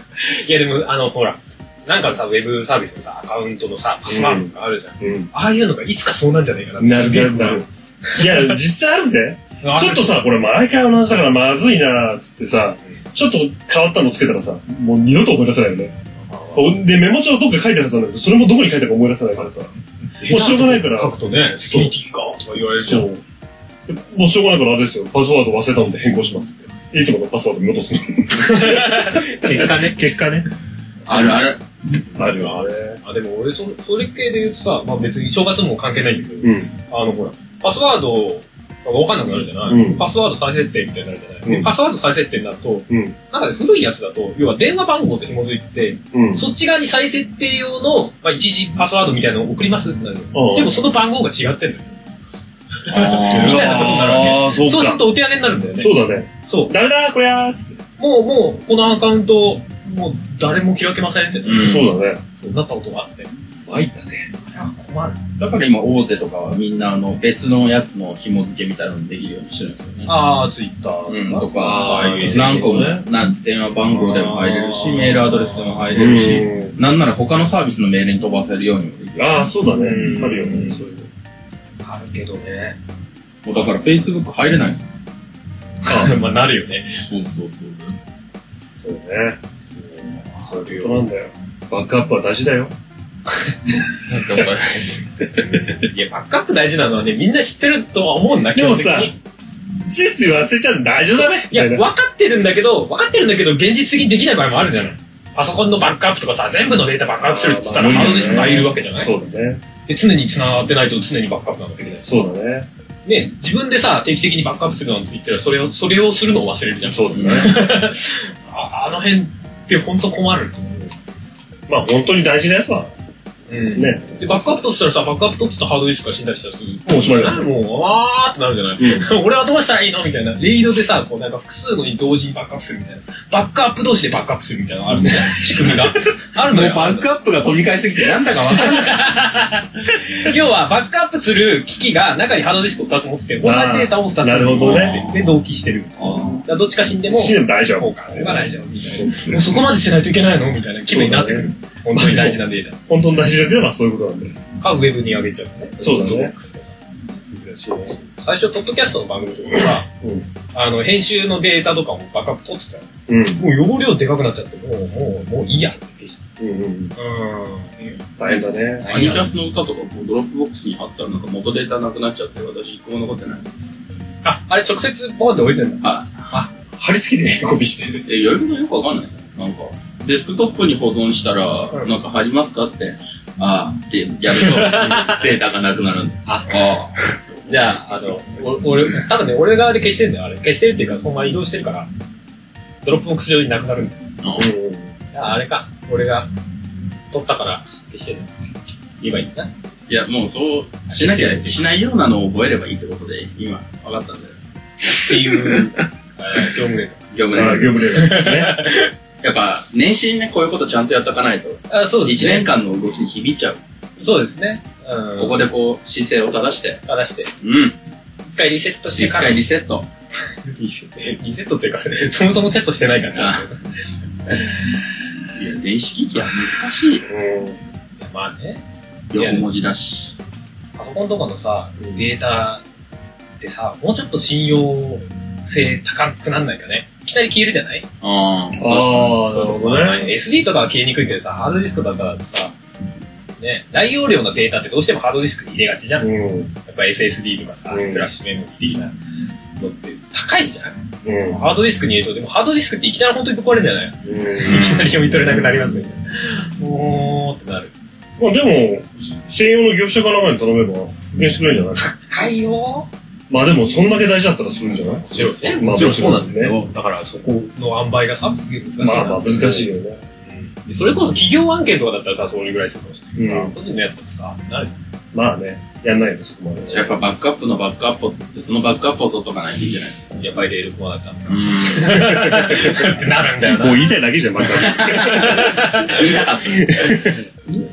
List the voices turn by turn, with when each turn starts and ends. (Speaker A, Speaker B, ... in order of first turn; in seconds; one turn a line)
Speaker A: 0.2-7.6
Speaker B: 4.1-5.3
Speaker B: 6.8-15.9
Speaker A: 8.2-8.5
Speaker A: 9.6-10.3
Speaker A: 16.3-16.7
Speaker B: 16.5-19.7
Speaker A: 20.2-23.1
Speaker B: 20.2-21.9
Speaker B: 22.8-23.2
Speaker B: 23.9-30.5
Speaker A: 28.5-30.1
Speaker C: 31.1-31.6
Speaker B: 32.1-33.0
Speaker A: 32.2-51.9
Speaker B: 36.4-36.7
Speaker B: 39.6-40.0
Speaker B: 41.4-41.7
Speaker B: 42.9-43.1
Speaker B: 46.1-46.4
Speaker B: 50.3-50.8
Speaker A: 52.9-56.7
Speaker C: 52.9-53.8
Speaker B: 53.2-55.1
Speaker B: 55.8-57.8
Speaker A: 58.0-61.7
Speaker C: 61.4-61.9
Speaker B: 61.5-62.2
Speaker A: 62.4-63.3
Speaker B: 63.7-64.3
Speaker A: 64.5-65.2
Speaker C: 65.4-70.2
Speaker A: 70.1-73.0
Speaker C: 71.1-79.5
Speaker B: 71.3-73.0
Speaker A: 74.0-75.8
Speaker B: 75.9-76.8
Speaker B: 79.2-81.1
Speaker A: 79.7-80.8
Speaker A: 81.8-82.8
Speaker C: 83.4-84.9
Speaker B: 85.8-86.2
Speaker A: 85.9-87.0
Speaker C: 87.0-87.8
Speaker B: 88.8-89.4
Speaker A: 89.8-91.0
Speaker B: 90.4-92.7
Speaker C: 94.1-95.0
Speaker B: 95.4-95.7
Speaker A: 95.7-99.2
Speaker B: 98.5-99.2
Speaker B: 99.8-101.8
Speaker A: 101.2-109.1
Speaker B: 107.2-109.6
Speaker A: 109.8-112.1
Speaker B: 112.0-112.7
Speaker A: 113.0-120.9
Speaker B: 116.8-117.6
Speaker B: 121.7-122.9
Speaker A: 123.5-137.1
Speaker B: 123.7-124.6
Speaker B: 126.8-127.5
Speaker B: 128.8-129.1
Speaker B: 135.1-135.7
Speaker C: 136.5-139.0
Speaker A: 138.5-152.8
Speaker B: 143.4-145.1
Speaker C: 144.6-145.1
Speaker C: 146.0-146.4
Speaker B: 147.1-149.6
Speaker B: 150.9-154.4
Speaker A: 154.6-156.8
Speaker B: 155.8-156.3
Speaker A: 157.3-159.8
Speaker B: 159.6-160.3
Speaker A: 160.5-166.2
Speaker B: 163.1-163.4
Speaker B: 166.4-166.9
Speaker A: 166.9-168.1
Speaker B: 168.2-168.9
Speaker A: 168.8-169.2
Speaker C: 168.9-173.5
Speaker A: 174.2-176.5
Speaker C: 175.8-176.2
Speaker B: 176.8-178.0
Speaker C: 178.1-187.8
Speaker A: 184.8-185.1
Speaker A: 186.2-186.5
Speaker A: 187.5-191.9
Speaker A: 192.8-194.0
Speaker C: 194.2-194.5
Speaker B: 194.3-194.9
Speaker A: 195.1-196.3
Speaker A: 197.1-198.3
Speaker A: 199.0-199.5
Speaker C: 199.9-204.3
Speaker A: 200.9-201.6
Speaker A: 204.8-207.0
Speaker C: 207.1-207.9
Speaker B: 207.3-208.6
Speaker A: 207.9-208.9
Speaker C: 209.2-213.6
Speaker A: 211.7-212.5
Speaker A: 214.0-215.4
Speaker C: 215.2-216.8
Speaker A: 216.9-217.3
Speaker C: 217.4-217.8
Speaker A: 218.3-219.4
Speaker C: 218.9-219.9
Speaker A: 220.4-223.6
Speaker C: 223.1-224.6
Speaker C: 225.3-227.0
Speaker B: 227.1-227.6
Speaker A: 228.0-228.6
Speaker C: 229.1-230.1
Speaker A: 229.2-229.4
Speaker A: 230.8-232.6
Speaker A: 233.4-237.8
Speaker C: 238.0-239.2
Speaker B: 238.6-240.1
Speaker A: 239.2-242.5
Speaker A: 243.4-248.9
Speaker B: 246.0-246.5
Speaker B: 247.7-248.1
Speaker A: 249.6-257.7
Speaker B: 251.0-251.4
Speaker B: 254.0-254.7
Speaker C: 254.5-254.9
Speaker B: 258.2-261.9
Speaker A: 261.9-262.9
Speaker B: 263.3-266.5
Speaker A: 265.1-269.7
Speaker C: 265.2-265.5
Speaker C: 266.3-266.7
Speaker B: 268.8-270.0
Speaker A: 270.2-274.8
Speaker B: 273.1-273.5
Speaker B: 275.1-277.0
Speaker C: 276.7-280.2
Speaker A: 280.2-283.9
Speaker C: 281.2-282.1
Speaker B: 281.8-282.9
Speaker B: 283.4-287.2
Speaker A: 284.8-286.0
Speaker C: 285.9-287.1